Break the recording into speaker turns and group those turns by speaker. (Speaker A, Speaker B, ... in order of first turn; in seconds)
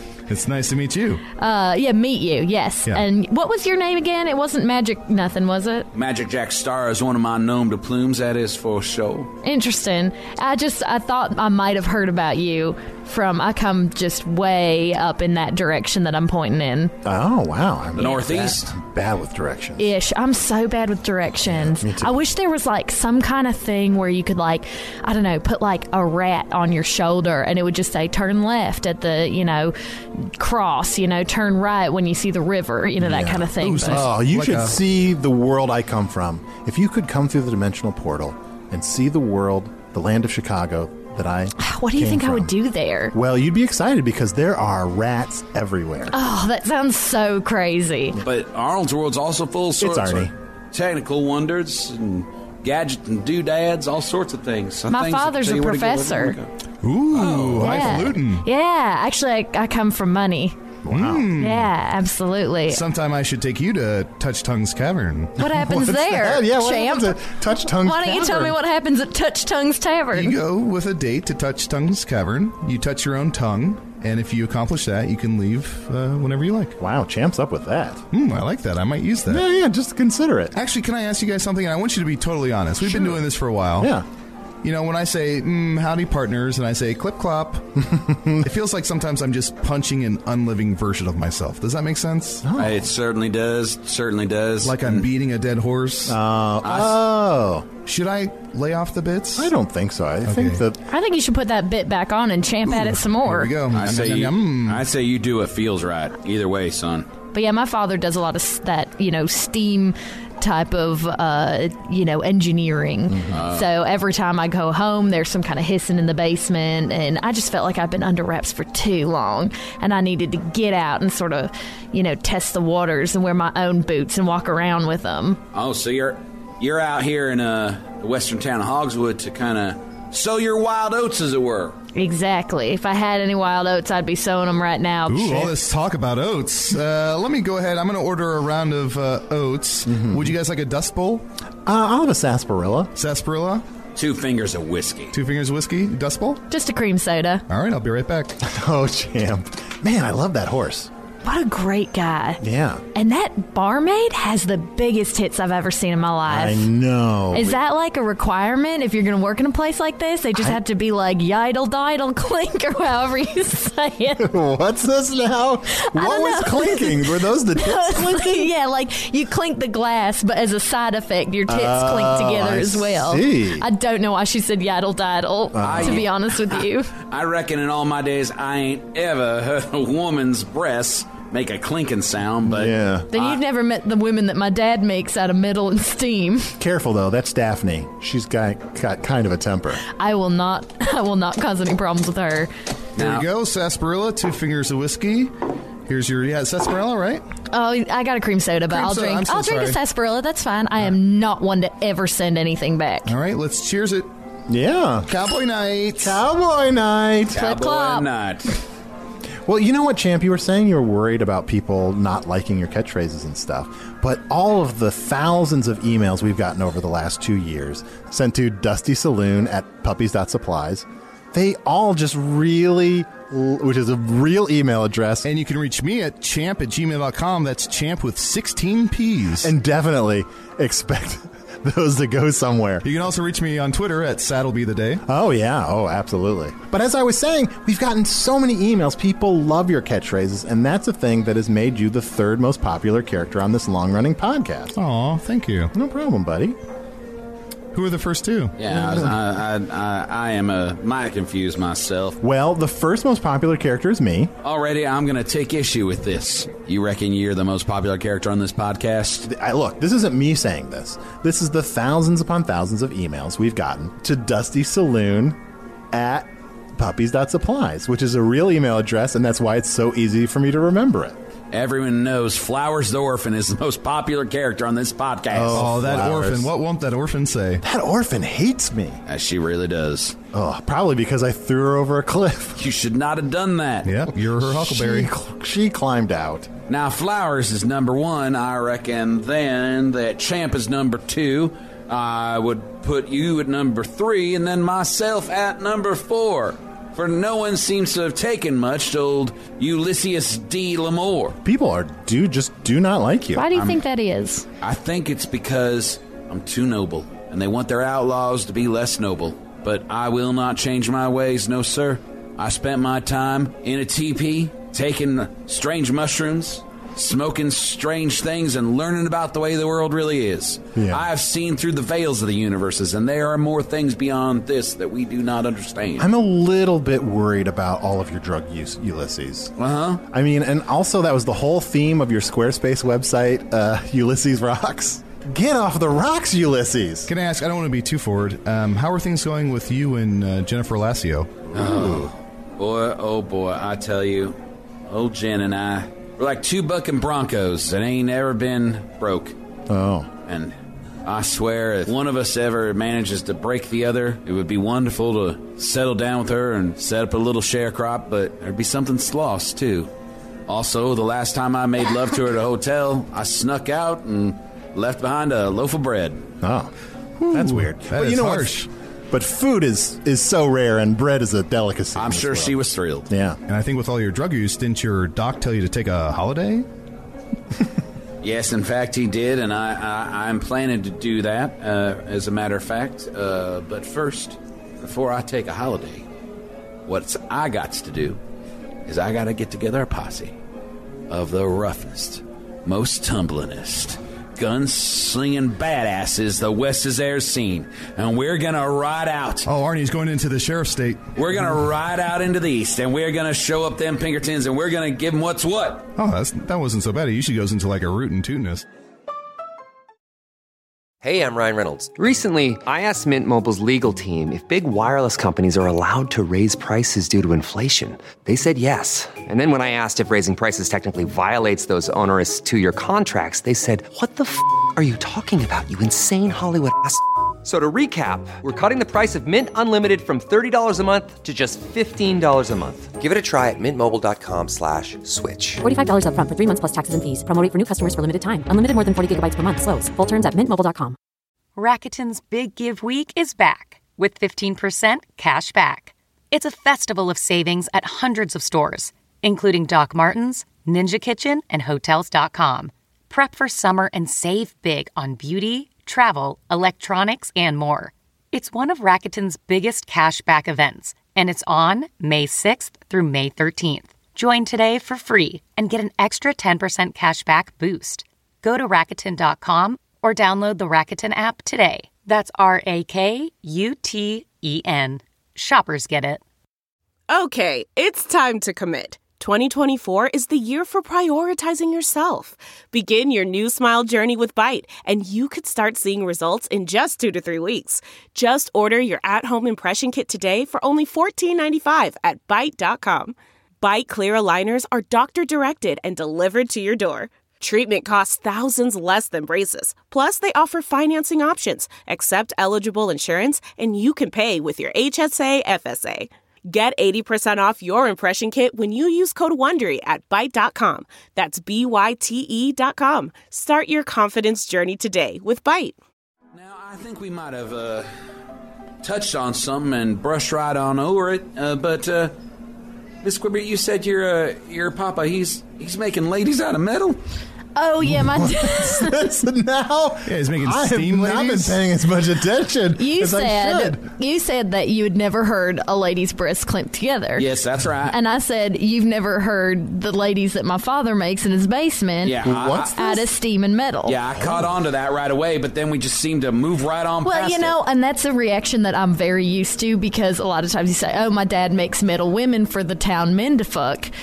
Speaker A: 0.3-1.2, 33.6-34.8, 56.8-58.5, 60.9-61.7, 62.7-65.4, 70.1-76.8, 78.1-79.5, 80.5-83.9, 84.6-87.7, 88.4-92.4, 94.6-96.2, 97.8-99.5, 100.3-100.6, 102.7-104.8, 135.1-141.2, 143.0-143.7, 145.1-146.4, 147.5-148.4, 193.0-195.3, 195.9-197.2, 198.7-199.8, 203.1-204.1, 205.1-206.2, 225.2-229.5, 232.8-235.0, 244.8-245.7, 247.7-248.6, 275.5-277.6, 283.9-285.1, 337.1-341.4, 367.2-368.7, 373.5-376.7, 399.4-401.1, 406.0-408.6, 530.1-531.6
Speaker B: 1.4-5.9, 9.4-16.9, 19.8-34.1, 41.6-43.1, 46.1-48.2, 54.9-56.4, 57.6-60.6, 61.4-62.8, 65.4-70.4, 100.9-103.5, 107.3-125.4, 131.9-135.5, 146.5-147.4, 151.2-152.4, 152.9-156.7, 157.3-164.3, 165.8-176.9, 183.1-186.6, 189.8-192.5, 197.5-203.1, 207.4-208.1, 303.4-304.4, 527.6-529.1, 532.8-537.3, 537.9-542.2, 542.7-544.0, 547.0-553.9
Speaker C: 5.9-9.3, 18.0-18.7, 48.2-56.5, 57.1-58.0, 92.6-95.1, 96.6-97.0, 103.7-107.1, 113.3-113.7, 125.5-131.8, 144.0-145.1, 175.6-183.4, 193.0-193.3, 207.3-208.6, 248.6-252.2, 254.4-259.3, 271.5-275.7, 279.1-280.2, 282.6-283.9, 286.7-301.4, 304.6-326.1, 329.6-330.0, 341.5-344.4, 344.9-349.4, 350.3-359.9, 360.5-366.2, 371.9-373.1, 378.2-386.1, 386.9-388.2, 388.9-390.4, 391.1-399.5, 401.2-405.9, 516.3-517.9, 518.8-522.1, 523.0-527.0, 537.2-538.0, 542.0-543.0, 543.9-547.5
Speaker D: 17.0-19.9, 21.4-22.2, 33.0-42.5, 43.1-46.2, 49.8-50.3, 60.8-61.3, 65.4-68.6, 76.8-78.0, 79.2-80.5, 82.8-83.3, 83.8-84.1, 87.8-88.5, 92.4-92.9, 96.1-97.7, 99.4-100.8, 139.9-140.4, 141.7-142.9, 148.4-150.9, 152.4-152.8, 156.3-157.6, 164.2-168.5, 171.5-173.7, 175.5-176.1, 182.5-183.1, 186.6-189.8, 204.5-205.1, 206.0-207.6, 209.4-225.3, 229.4-232.8, 235.1-244.8, 245.7-246.6, 248.7-249.1, 252.2-254.3, 259.2-265.4, 265.9-271.2, 275.3-276.5, 277.6-279.0, 280.3-282.6, 284.4-286.5, 301.4-303.5, 320.8-321.1, 326.0-329.5, 330.1-337.1, 341.5-342.1, 349.7-350.1, 366.4-366.7, 367.3-372.6, 373.1-373.4, 527.9-533.9, 542.2-542.8, 544.2-544.5
Speaker E: 411.0-435.6
Speaker F: 435.6-441.0
Speaker G: 441.6-476.2
Speaker H: 477.1-515.8